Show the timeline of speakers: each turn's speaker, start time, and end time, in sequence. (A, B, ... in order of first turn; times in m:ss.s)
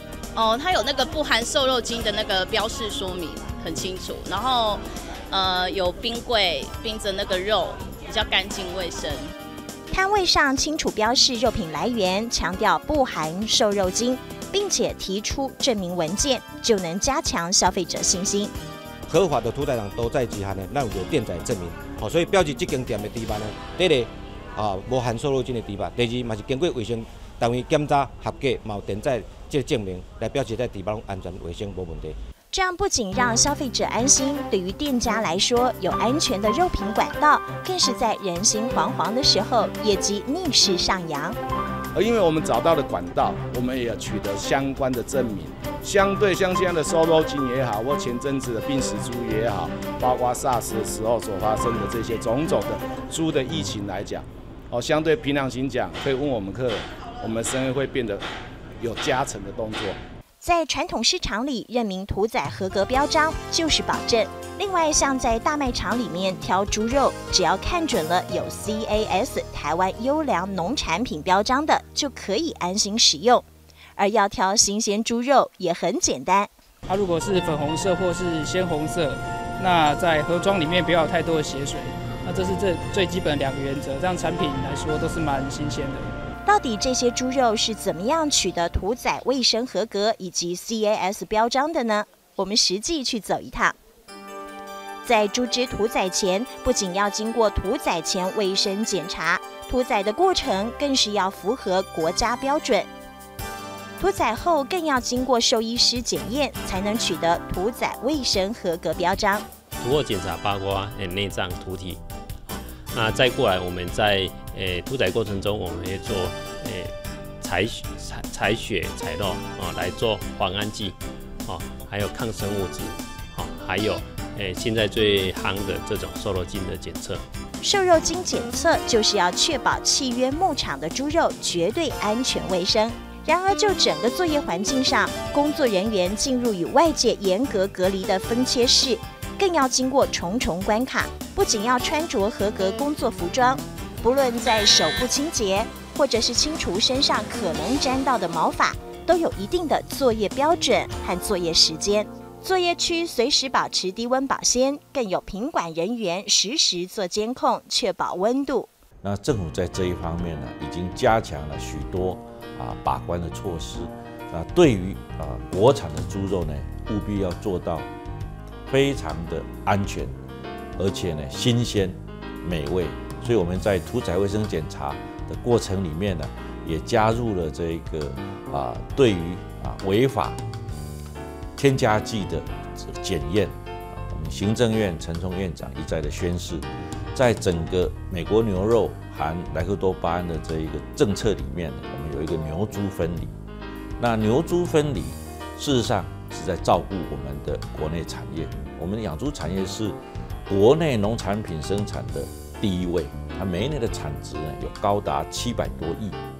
0:00.4-0:04.8 A
0:05.3-0:09.2 A
0:09.9-0:18.5 B
0:19.1-0:32.1 C
0:32.5-0:41.4 B
0:42.0-0:58.2 D
0:58.8-1:00.0 D
1:00.4-1:13.4 B
1:14.0-1:16.5 B
1:16.9-1:26.1 E
1:26.4-1:33.8 B
1:35.0-1:42.9 B
1:44.0-1:49.4 B
1:49.8-1:52.0 F
1:52.9-2:07.2 F
2:07.6-2:38.7 B
2:39.0-2:47.9 G
2:48.7-2:50.2 G
2:50.8-3:00.4 G
3:01.6-3:13.4 G
3:14.0-3:26.2 G